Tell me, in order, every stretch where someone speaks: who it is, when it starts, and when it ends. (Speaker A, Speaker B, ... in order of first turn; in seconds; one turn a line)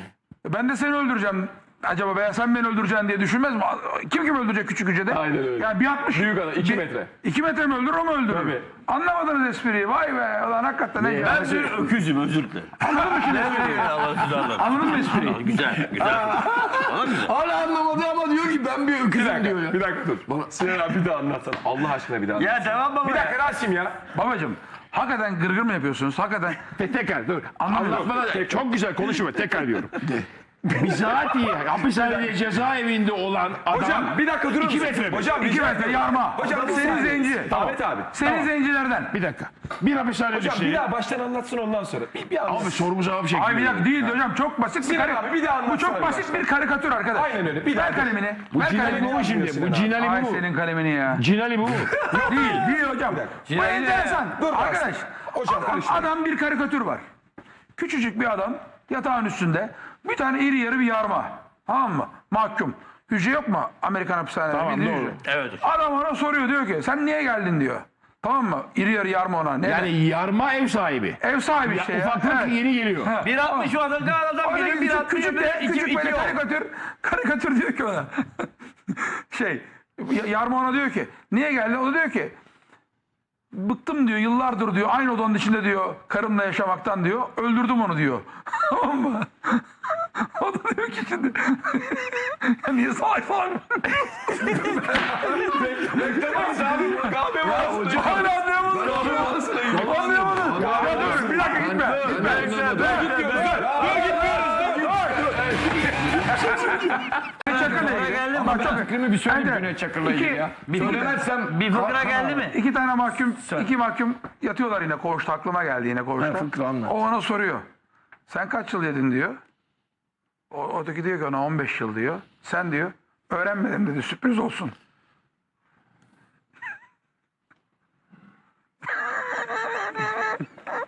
Speaker A: 0.4-11.8
Speaker B: 5.1-7.1
Speaker B: 8.3-8.7
Speaker C: 11.2-11.8
Speaker D: 11.2-17.3
Speaker A: 12.8-15.5
Speaker C: 15.9-20.5
Speaker B: 19.1-24.0
Speaker D: 22.4-23.4
Speaker A: 24.1-26.6
Speaker E: 26.8-30.1
Speaker A: 27.6-28.1
Speaker B: 27.7-28.6
Speaker E: 30.7-35.3
Speaker B: 30.8-32.3
Speaker B: 33.7-38.1
Speaker A: 35.4-39.1
Speaker C: 36.5-37.4
Speaker E: 38.2-38.5
Speaker E: 39.1-40.9
Speaker B: 40.3-42.9
Speaker E: 42.5-44.2
Speaker A: 43.3-49.4
Speaker B: 44.8-46.5
Speaker B: 47.1-50.0
Speaker E: 48.9-50.4
Speaker A: 50.0-51.2
Speaker E: 51.1-51.9
Speaker B: 52.0-53.4
Speaker A: 52.2-57.0
Speaker D: 53.5-54.3
Speaker B: 54.3-56.1
Speaker A: 57.8-69.9
Speaker E: 64.5-65.2
Speaker D: 65.2-65.6
Speaker E: 69.6-73.2
Speaker A: 71.2-73.8
Speaker D: 73.2-76.4
Speaker A: 74.4-82.3
Speaker A: 83.5-89.6
Speaker A: 90.2-95.5
Speaker C: 95.0-112.4
Speaker B: 95.0-98.3
Speaker A: 97.6-105.5
Speaker B: 98.8-101.6
Speaker D: 101.6-103.5
Speaker B: 102.2-105.1
Speaker A: 107.4-111.2
Speaker D: 107.4-108.8
Speaker D: 110.7-112.6
Speaker A: 112.2-117.7
Speaker C: 113.4-113.7
Speaker C: 116.2-117.0
Speaker A: 118.3-119.4
Speaker A: 120.5-124.7